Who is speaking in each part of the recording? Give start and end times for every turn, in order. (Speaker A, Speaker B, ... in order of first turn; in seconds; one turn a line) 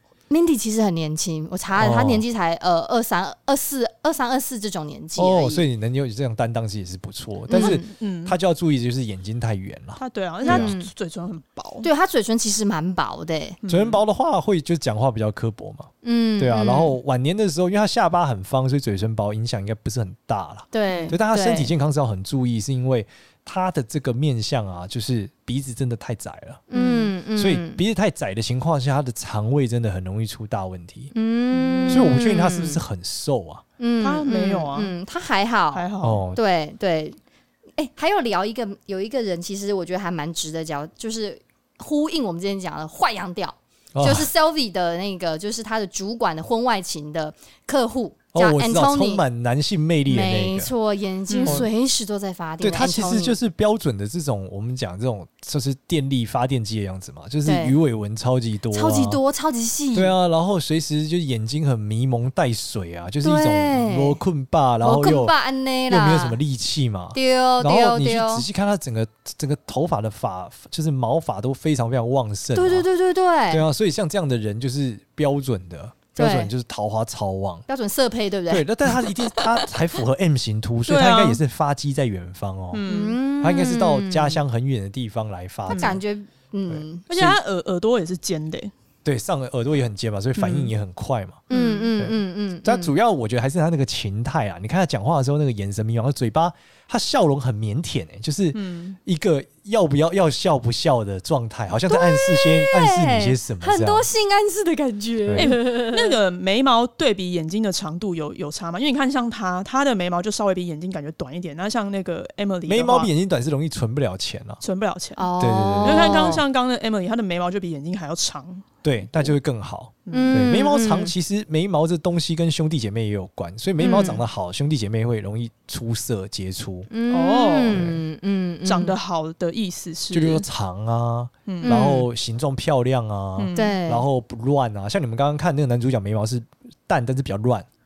Speaker A: 0.3-5.6
Speaker B: 1.7-2.2
Speaker B: 5.2-10.7
Speaker A: 7.5-7.8
Speaker C: 7.5-8.4
Speaker C: 10.0-11.9
Speaker A: 10.4-10.9
Speaker A: 11.8-13.6
Speaker C: 13.6-14.0
Speaker B: 13.7-26.7
Speaker A: 16.0-16.9
Speaker A: 20.7-21.7
Speaker C: 20.9-21.2
Speaker A: 26.7-27.8
Speaker C: 26.7-27.1
Speaker B: 27.4-31.1
Speaker A: 31.1-32.8
Speaker C: 31.5-32.1
Speaker B: 31.9-33.6
Speaker A: 33.8-37.2
Speaker C: 34.0-34.9
Speaker C: 35.7-36.2
Speaker B: 36.0-36.4
Speaker A: 37.8-49.2
Speaker B: 43.9-44.3
Speaker B: 48.3-50.7
Speaker A: 50.0-53.4
Speaker C: 51.3-51.7
Speaker B: 52.6-59.2
Speaker A: 57.4-57.8
Speaker A: 58.7-60.1
Speaker B: 59.9-65.3
Speaker A: 63.2-64.2
Speaker A: 64.8-66.4
Speaker B: 65.9-72.9
Speaker A: 67.1-68.4
Speaker A: 72.5-73.6
Speaker B: 73.5-77.7
Speaker A: 76.1-76.5
Speaker A: 77.7-78.7
Speaker B: 78.5-82.8
Speaker C: 80.8-81.4
Speaker C: 82.7-83.2
Speaker A: 82.8-84.4
Speaker B: 83.4-86.0
Speaker A: 85.7-87.0
Speaker C: 85.7-86.0
Speaker B: 86.7-87.4
Speaker C: 87.1-88.7
Speaker B: 89.0-104.1
Speaker C: 90.4-90.7
Speaker C: 91.5-91.9
Speaker A: 91.5-92.9
Speaker C: 98.5-99.0
Speaker A: 101.9-106.2
Speaker B: 105.2-105.5
Speaker C: 105.3-113.1
Speaker B: 112.7-114.6
Speaker C: 114.6-115.3
Speaker A: 115.2-116.4
Speaker B: 115.4-116.4
Speaker C: 115.8-119.3
Speaker B: 118.8-126.9
Speaker C: 120.1-120.4
Speaker A: 120.1-121.1
Speaker C: 123.8-124.2
Speaker A: 123.8-124.2
Speaker A: 126.9-128.9
Speaker C: 127.1-127.8
Speaker B: 127.7-128.0
Speaker C: 128.6-130.5
Speaker B: 130.1-137.7
Speaker C: 131.4-131.9
Speaker A: 131.6-132.1
Speaker C: 133.4-133.8
Speaker A: 133.5-134.1